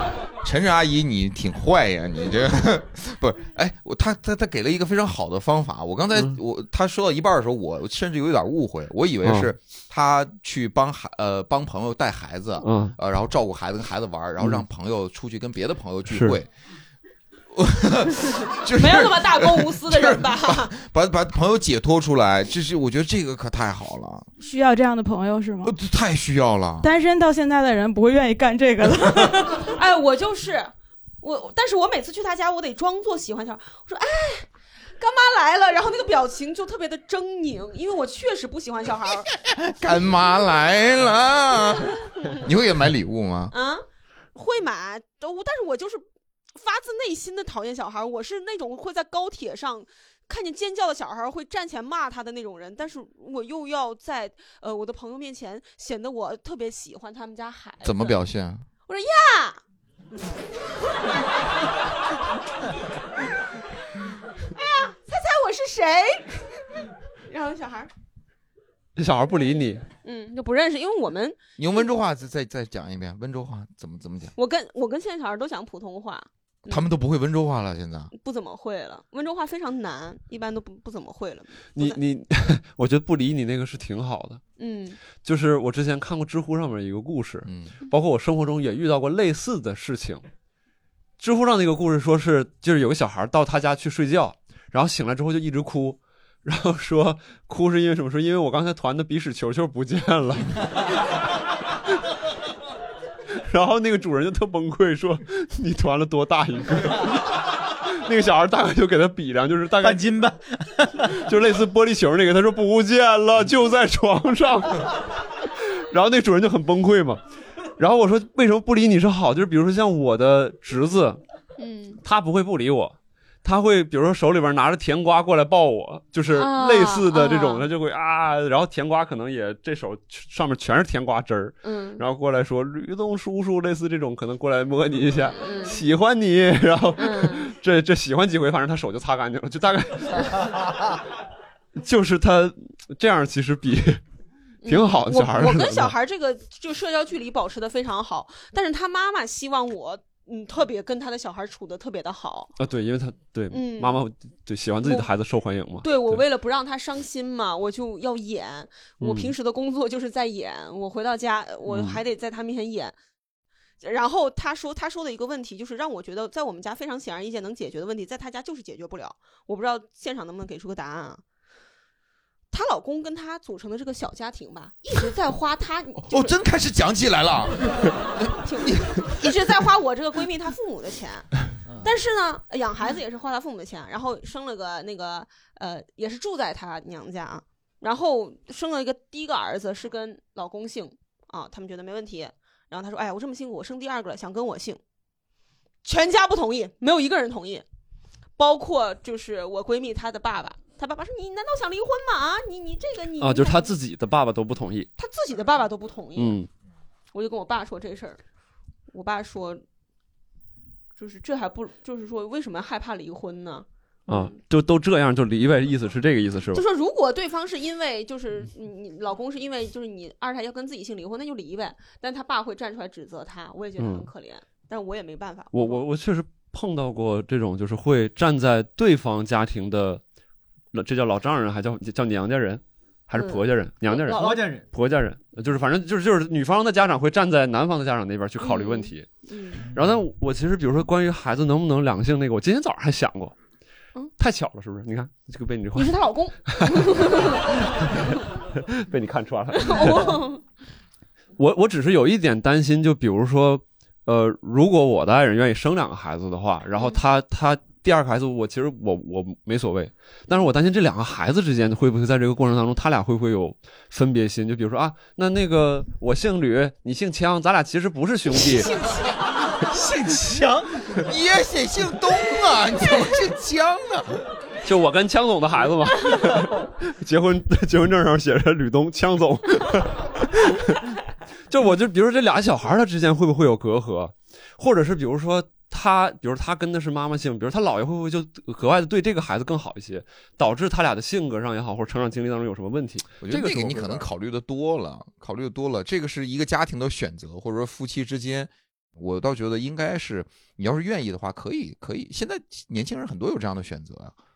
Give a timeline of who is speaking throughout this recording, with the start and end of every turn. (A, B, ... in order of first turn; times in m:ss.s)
0:00.4-0:16.5 A
0:09.2-0:09.5 B
0:12.6-0:13.0 B
0:16.1-0:16.4 B
0:17.5-0:24.3 A
0:18.7-0:20.7 C
0:24.4-0:25.7 D
0:25.6-0:26.9 A
0:26.8-0:29.7 D
0:29.6-0:34.5 C
0:35.0-0:39.3 C
0:39.5-0:43.5 A
0:43.5-0:58.2 C
0:57.8-0:58.7 A
0:58.9-0:59.6 C
1:04.6-1:06.6 C
1:07.3-1:07.9 C
1:09.0-1:09.8 B
1:10.0-1:11.4 C
1:11.6-1:14.3 A
1:14.4-1:16.9 C
1:16.7-1:18.1 A
1:18.1-1:22.0 C
1:21.7-1:24.4 B
1:24.6-1:25.0 C
1:25.2-1:30.2 B
1:27.4-1:27.7 A
1:31.2-1:40.8 B
1:43.4-1:47.5 B
1:48.0-1:50.1 B
1:49.8-1:51.0 E
1:51.0-1:54.9 B
1:55.6-1:57.2 B
1:57.8-2:01.2 B
2:01.6-2:02.0 C
2:02.0-2:20.7 B
2:06.3-2:07.7 C
2:11.6-2:12.0 C
2:15.4-2:15.8 C
2:17.0-2:17.5 C
2:21.8-2:24.0 B
2:24.6-2:32.5 C
2:24.7-2:26.0 B
2:32.6-2:36.2 B
2:33.5-2:34.0 C
2:34.8-2:35.1 C
2:35.8-2:43.0 C
2:39.0-2:39.3 B
2:41.6-2:42.0 B
2:43.8-2:51.2 C
2:52.5-2:56.3 C
2:56.0-2:59.3 A
2:58.4-3:01.3 C
3:01.8-3:14.8 C
3:15.8-3:17.6 C
3:18.4-3:23.8 C
3:23.2-3:24.9 B
3:25.0-3:26.4 C
3:26.2-3:26.5 B
3:27.1-3:28.2 C
3:28.9-3:29.6 C
3:31.0-3:34.3 C
3:34.1-3:36.6 B
3:36.5-3:45.8 C
3:43.8-3:44.1 B
3:45.5-3:50.0 B
3:50.7-3:59.1 B
3:53.1-3:54.4 C
3:54.2-3:54.6 E
3:58.4-3:59.7 C
3:59.7-4:03.4 B
4:04.2-4:10.2 B
4:05.7-4:08.3 C
4:09.5-4:10.4 C
4:11.4-4:28.7 B
4:28.6-4:29.0 C
4:29.7-4:30.9 E
4:31.0-4:34.1 A
4:34.6-4:40.8 B
4:41.5-4:54.1 B
4:53.2-5:04.1 A